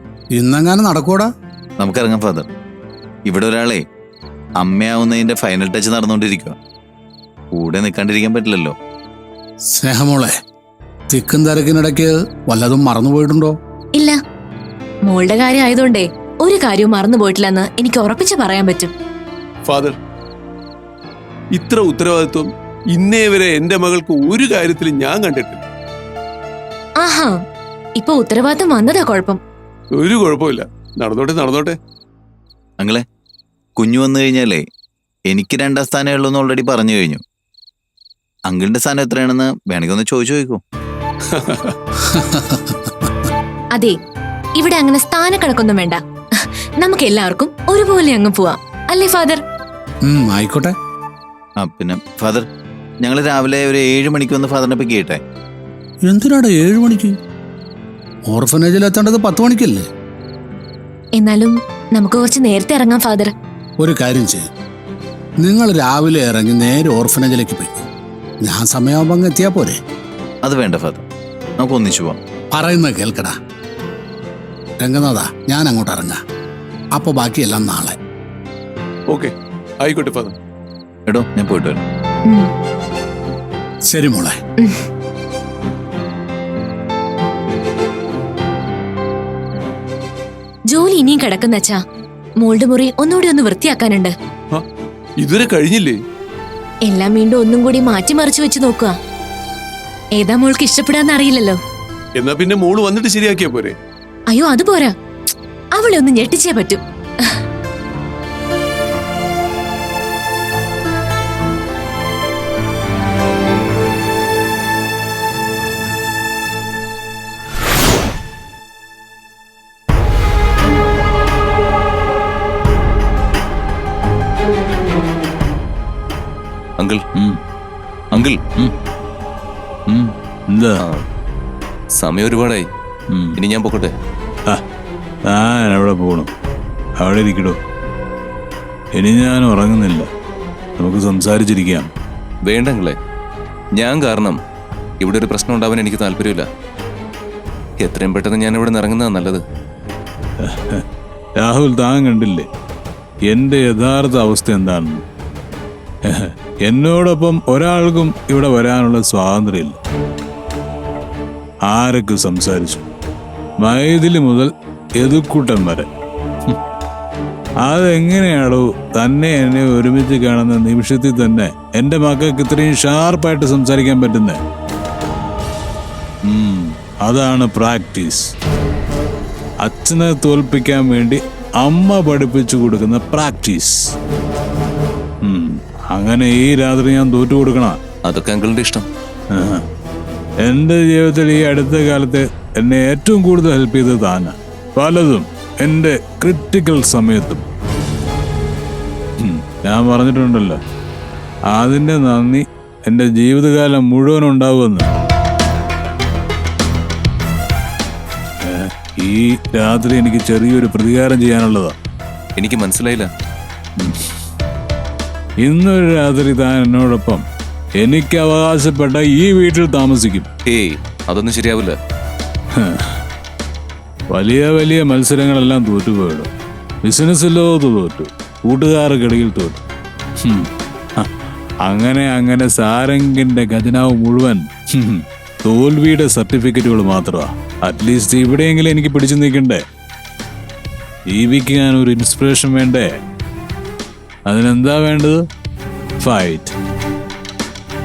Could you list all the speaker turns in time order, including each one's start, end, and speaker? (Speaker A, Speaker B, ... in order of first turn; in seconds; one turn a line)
Speaker A: 0.3-1.3
Speaker B: 1.8-2.5
Speaker B: 3.3-3.8
Speaker B: 4.6-6.5
Speaker B: 7.5-8.7
Speaker A: 9.7-10.3
Speaker A: 11.1-13.5
Speaker C: 15.1-18.9
Speaker D: 19.7-19.9
Speaker D: 21.5-25.6
Speaker C: 27.0-27.3
Speaker C: 27.9-29.4
Speaker D: 30.0-31.8
Speaker B: 33.8-34.6
Speaker B: 35.3-37.2
Speaker B: 38.5-40.6
Speaker D: 41.3-41.7
Speaker A: 42.1-43.1
Speaker C: 44.6-49.4
Speaker A: 50.0-50.7
Speaker B: 51.6-52.4
Speaker B: 53.0-55.2
Speaker A: 56.1-57.1
Speaker A: 58.3-59.9
Speaker C: 61.2-63.3
Speaker A: 63.8-64.5
Speaker A: 65.4-67.8
Speaker A: 68.4-69.8
Speaker B: 70.4-71.0
Speaker B: 71.6-72.2
Speaker A: 72.5-73.3
Speaker A: 74.8-76.2
Speaker A: 77.0-78.0
Speaker D: 79.8-80.3
Speaker B: 81.1-81.8
Speaker A: 83.9-84.4
Speaker C: 90.7-91.8
Speaker C: 92.4-94.1
Speaker D: 95.2-96.0
Speaker C: 96.8-98.9
Speaker C: 100.2-101.6
Speaker D: 102.2-103.7
Speaker C: 104.3-104.9
Speaker C: 105.8-107.3
Speaker E: 128.2-128.7
Speaker E: 129.9-130.8
Speaker F: 132.0-132.7
Speaker F: 133.4-133.9
Speaker E: 135.3-136.3
Speaker E: 137.0-137.6
Speaker E: 139.0-140.1
Speaker E: 140.8-141.9
Speaker F: 142.4-142.9
Speaker F: 143.8-144.4
Speaker F: 145.0-146.4
Speaker F: 147.8-149.4
Speaker E: 150.4-150.8
Speaker E: 151.4-152.5
Speaker E: 153.3-155.0
Speaker E: 156.1-159.8
Speaker E: 161.7-162.8
Speaker E: 163.6-165.9
Speaker E: 167.6-174.4
Speaker E: 176.3-178.3
Speaker E: 179.6-183.8
Speaker E: 185.2-187.8
Speaker F: 188.1-188.9
Speaker E: 189.3-189.6
Speaker E: 190.4-197.4
Speaker E: 199.2-200.6
Speaker E: 201.5-204.9
Speaker E: 208.4-211.7
Speaker F: 212.4-213.1
Speaker E: 213.8-214.1
Speaker E: 215.4-217.2
Speaker E: 217.8-220.2
Speaker F: 220.5-221.7
Speaker E: 222.6-223.0
Speaker E: 224.1-226.3
Speaker E: 226.8-229.6
Speaker E: 231.6-239.6
Speaker E: 241.1-242.9
Speaker E: 244.3-245.2
Speaker E: 246.0-246.5